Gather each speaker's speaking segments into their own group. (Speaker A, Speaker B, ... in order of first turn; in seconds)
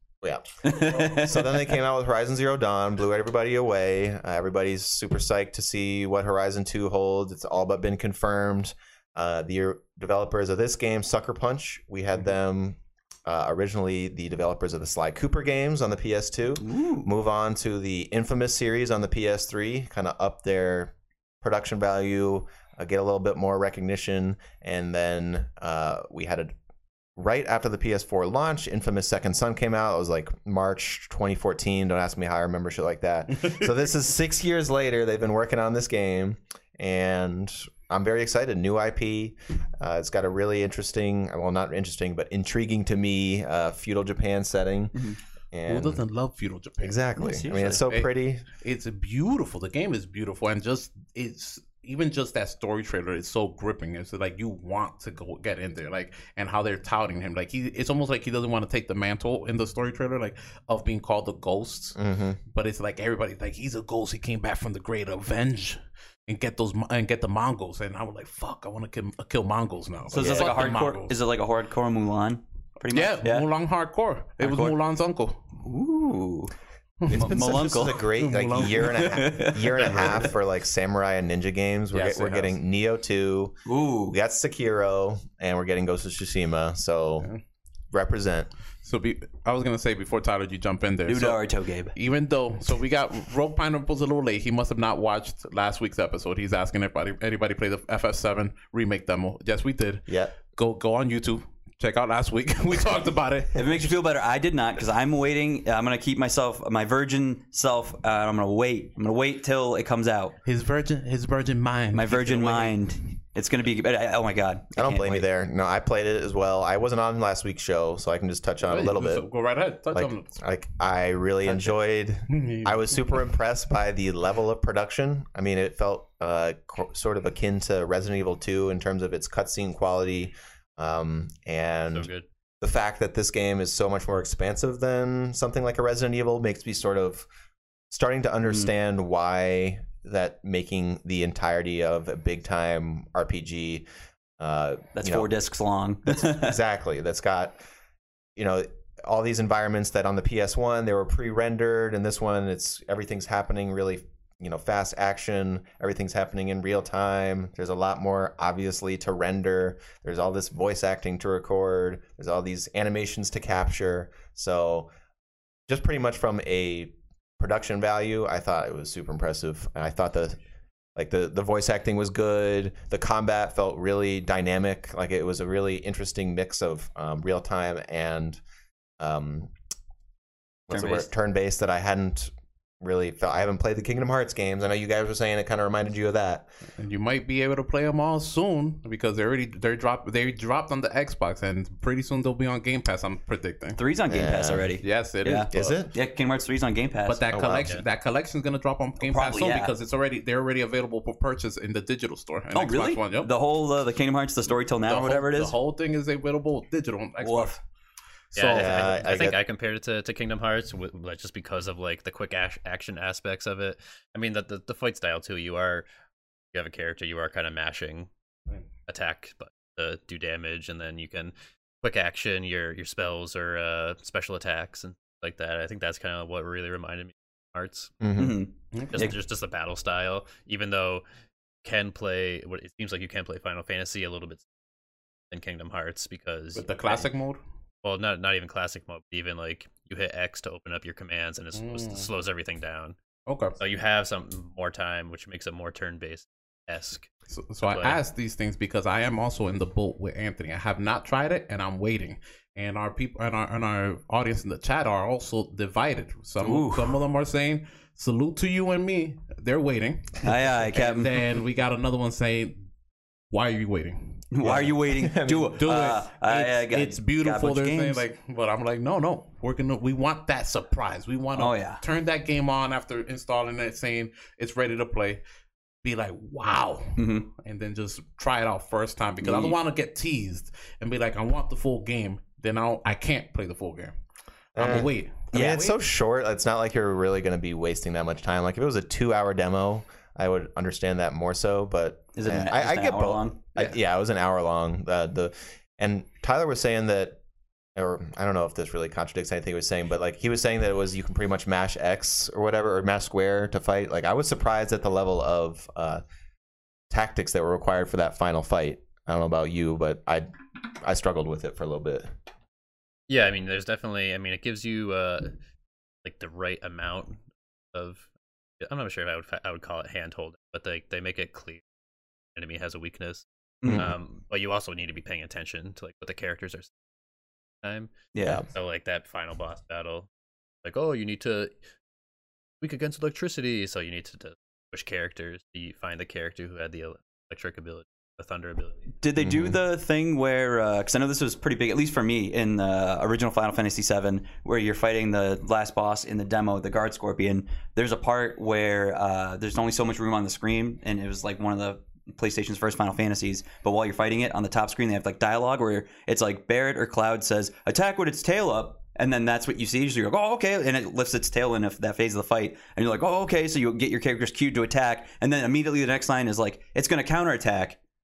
Speaker A: 0.2-26.5, 27.2-45.0, 45.5-46.0, 46.8-48.5, 62.0-62.4, 70.1-70.7, 77.1-87.3, 87.9-88.5, 100.1-100.3, 114.8-119.3, 119.9-132.1, 132.6-137.3, 137.9-143.9, 144.4-145.3, 146.1-147.6, 148.4-164.9, 165.7-170.4, 171.0-178.4, 179.0-179.5, 180.7-186.5, 194.1-194.7, 195.5-195.9, 197.3-197.7, 208.5-209.4, 228.0-228.4, 264.4-265.6, 284.6-297.2, 297.8-306.0, 306.9-312.1, 323.6-323.9, 339.2-339.6
Speaker B: 0.6-1.7, 16.6-17.1, 47.2-47.9, 70.1-73.5, 74.4-74.8, 75.6-76.5, 77.1-78.0, 78.8-80.3, 83.7-84.2, 91.1-91.9, 103.5-110.4, 111.9-115.3, 145.0-146.6, 180.7-181.1, 193.8-197.2, 199.0-199.7, 202.5-205.5, 207.2-207.6, 228.2-229.2, 256.4-257.0, 260.2-261.2, 264.3-268.1, 271.4-271.8, 277.0-277.3, 279.2-279.6, 285.3-285.6, 292.1-293.8, 323.6-323.9, 328.1-328.4, 339.0-367.8
Speaker C: 45.7-47.0, 47.9-62.0, 62.5-71.2, 72.9-75.4, 77.0-79.2, 81.9-82.5, 88.8-91.4, 91.9-103.6, 110.4-112.8, 118.7-120.3, 122.3-123.0, 186.8-193.8, 194.8-195.8, 197.1-203.3, 204.9-207.6, 208.3-209.1, 228.7-229.1, 236.6-237.4, 241.6-242.1, 243.3-243.6, 247.3-262.6, 263.3-264.6, 265.5-275.2, 275.8-283.9, 284.6-285.7
Speaker D: 131.9-132.2, 208.3-215.9, 216.5-218.1, 218.9-227.9, 228.9-231.0, 231.6-234.5, 235.3-237.1, 237.8-243.0, 243.6-247.1, 247.6-248.0, 313.1-315.4, 316.0-317.2, 317.7-318.1, 318.6-321.6, 322.4-326.7, 327.6-330.1, 330.6-331.5, 332.6-338.9